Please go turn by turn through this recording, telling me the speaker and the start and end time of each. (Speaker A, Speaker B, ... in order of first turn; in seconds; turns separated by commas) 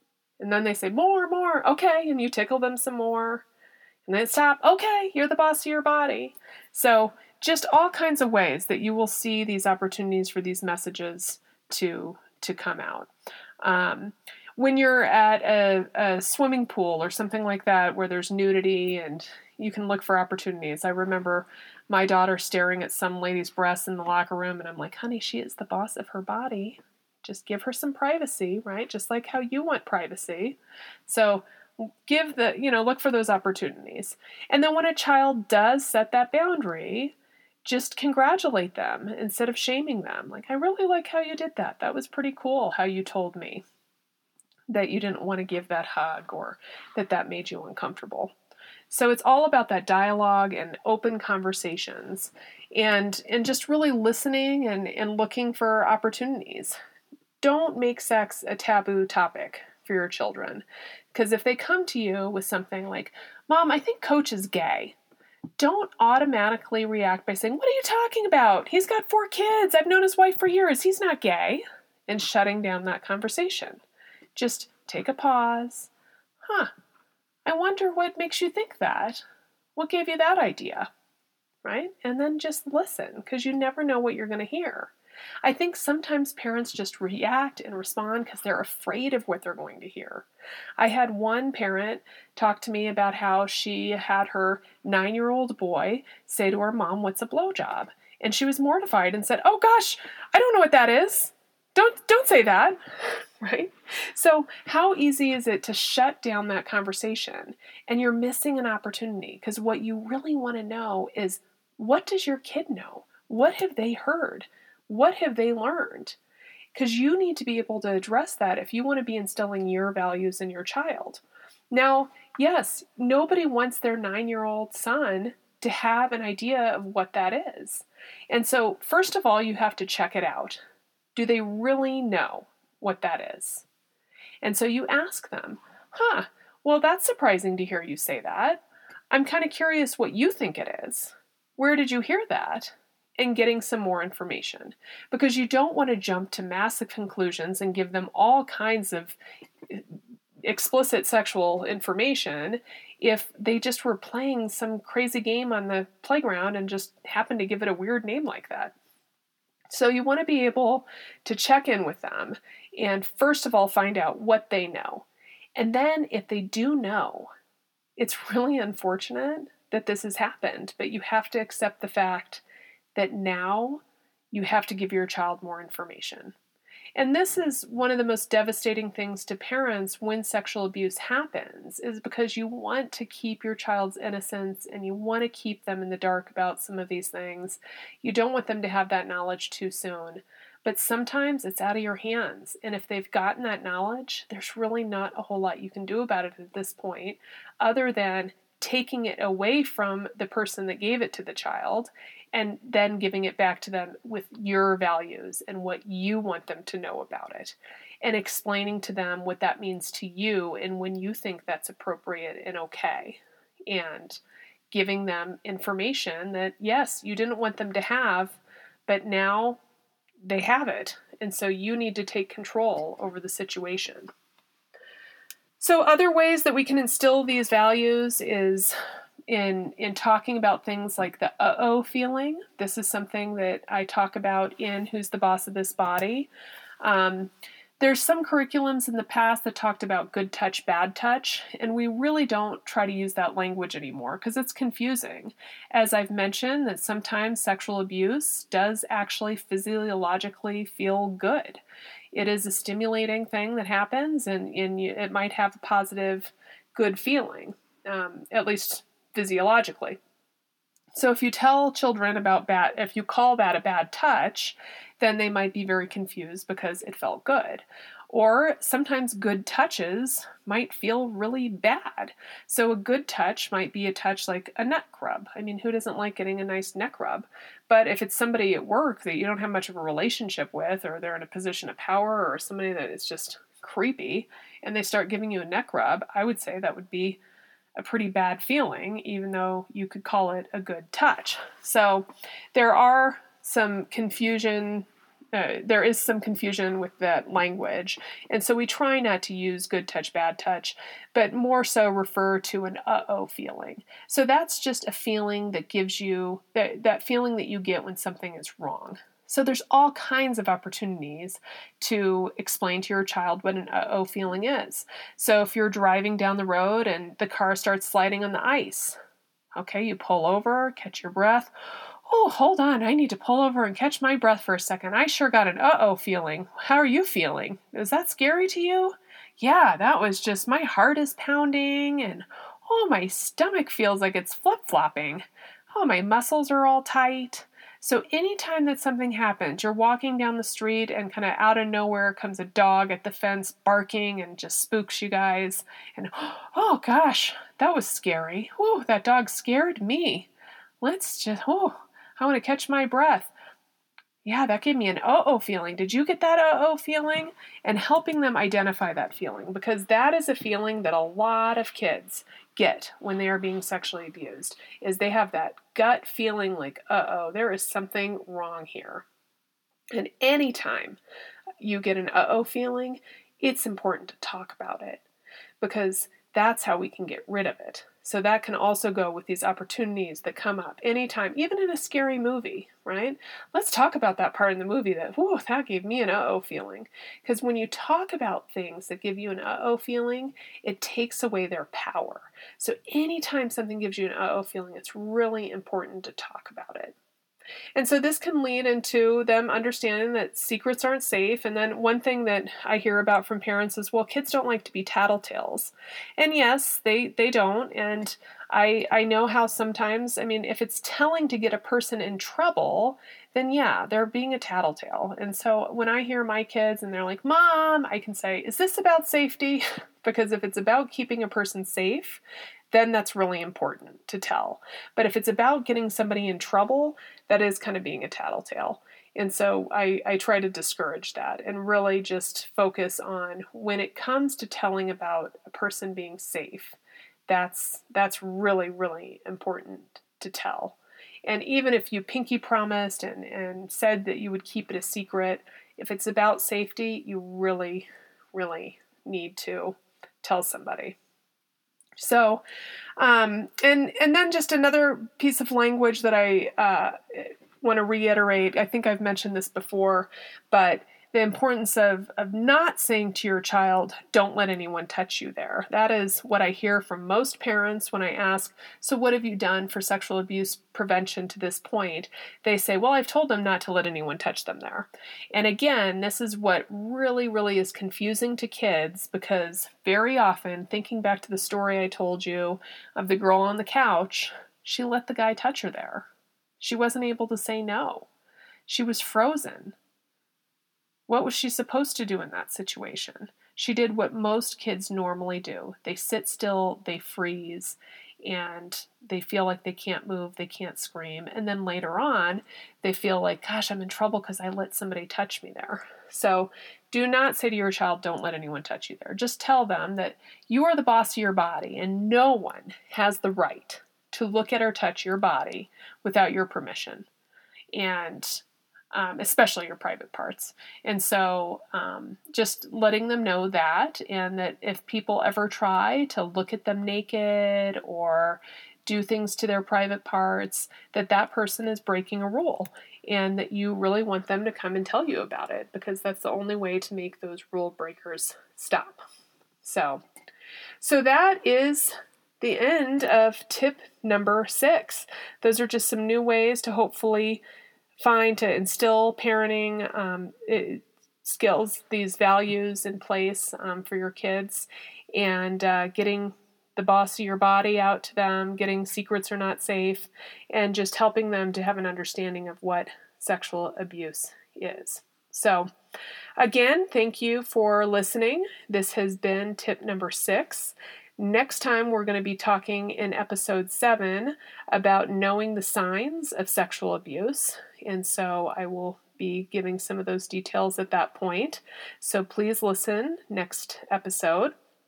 Speaker A: 0.4-3.4, Speaker A: 4.0-13.1, Speaker A: 13.6-43.6, Speaker A: 44.7-48.3, Speaker A: 48.9-56.8, Speaker A: 57.4-65.0, Speaker A: 65.6-73.8, Speaker A: 74.3-75.9, Speaker A: 76.4-76.7, Speaker A: 77.5-79.2, Speaker A: 79.8-80.9, Speaker A: 81.6-84.9, Speaker A: 85.4-90.2, Speaker A: 90.8-116.2, Speaker A: 116.7-130.6, Speaker A: 131.1-133.6, Speaker A: 134.4-149.2, Speaker A: 149.7-158.7, Speaker A: 159.7-167.3, Speaker A: 168.0-172.4, Speaker A: 172.9-176.3, Speaker A: 176.9-214.2, Speaker A: 214.7-219.6, Speaker A: 220.2-224.1, Speaker A: 225.6-228.8, Speaker A: 229.3-236.3, Speaker A: 236.8-251.6, Speaker A: 252.1-260.0, Speaker A: 260.9-287.2, Speaker A: 287.8-319.0, Speaker A: 319.6-350.3, Speaker A: 350.8-353.3, Speaker A: 354.2-369.1, Speaker A: 369.9-371.0, Speaker A: 371.6-375.0, Speaker A: 375.6-396.9, Speaker A: 397.8-451.0, Speaker A: 452.0-452.4, Speaker A: 453.0-486.1, Speaker A: 486.6-488.1, Speaker A: 488.7-489.8, Speaker A: 491.1-517.1, Speaker A: 517.7-539.0, Speaker A: 539.6-540.0, Speaker A: 540.8-547.4, Speaker A: 548.0-565.7, Speaker A: 566.4-584.5